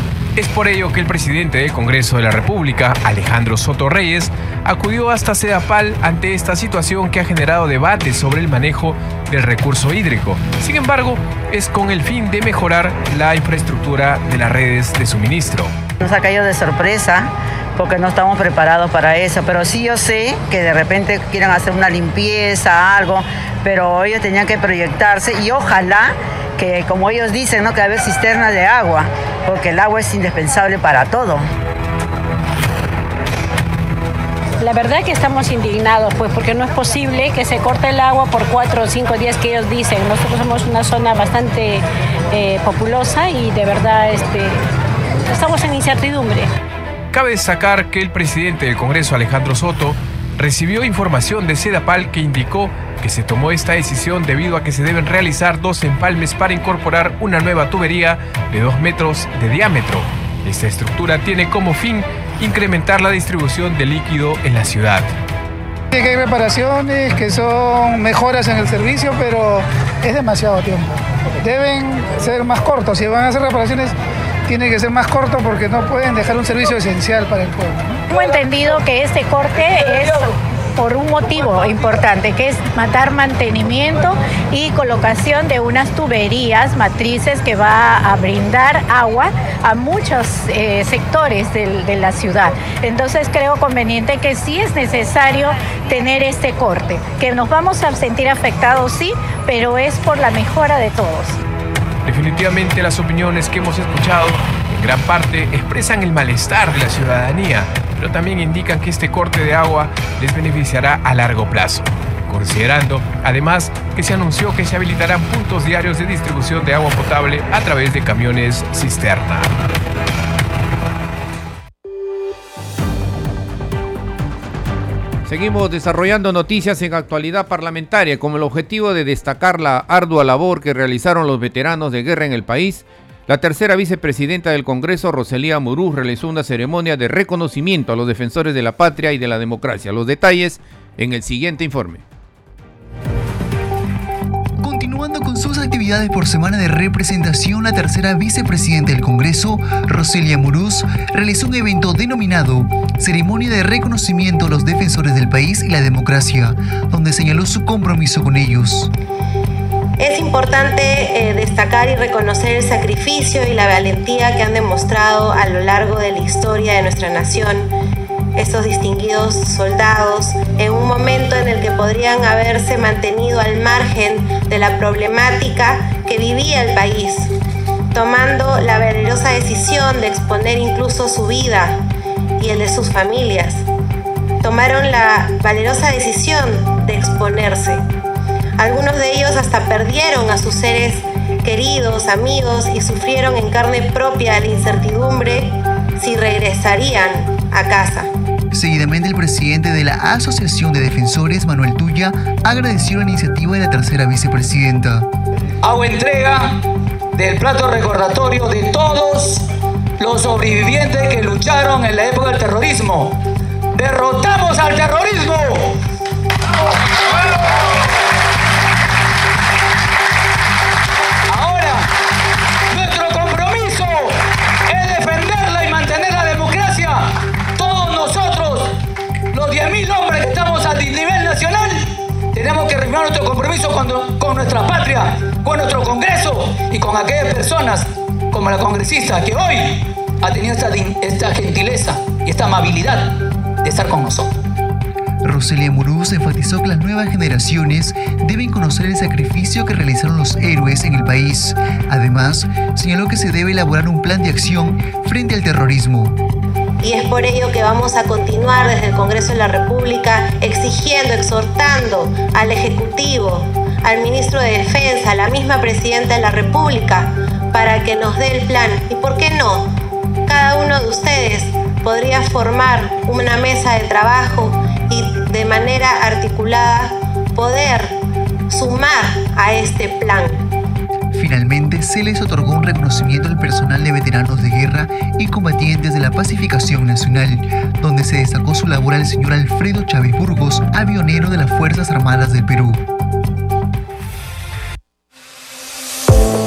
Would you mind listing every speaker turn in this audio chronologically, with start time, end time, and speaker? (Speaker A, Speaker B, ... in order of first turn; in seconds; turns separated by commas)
Speaker A: 0.3-15.7, Speaker B: 16.0-31.4, Speaker C: 34.6-44.6, Speaker C: 45.2-46.5, Speaker A: 47.1-65.1, Speaker D: 65.9-70.9, Speaker D: 71.4-73.9, Speaker D: 74.5-77.8, Speaker C: 78.1-101.4, Speaker A: 102.0-119.6, Speaker E: 125.2-142.0, Speaker F: 144.6-158.9, Speaker G: 160.0-167.7, Speaker G: 168.3-177.3, Speaker G: 177.9-181.8, Speaker G: 182.4-183.7, Speaker G: 184.4-187.8, Speaker G: 188.6-198.1, Speaker F: 198.5-205.1, Speaker H: 205.6-206.6, Speaker H: 207.1-209.5, Speaker H: 210.0-213.2, Speaker H: 213.7-215.8, Speaker H: 221.3-221.9, Speaker H: 222.7-228.8, Speaker H: 229.3-244.4, Speaker F: 245.2-256.2, Speaker G: 256.8-269.7, Speaker G: 270.3-277.9, Speaker G: 278.5-280.4, Speaker F: 281.1-292.8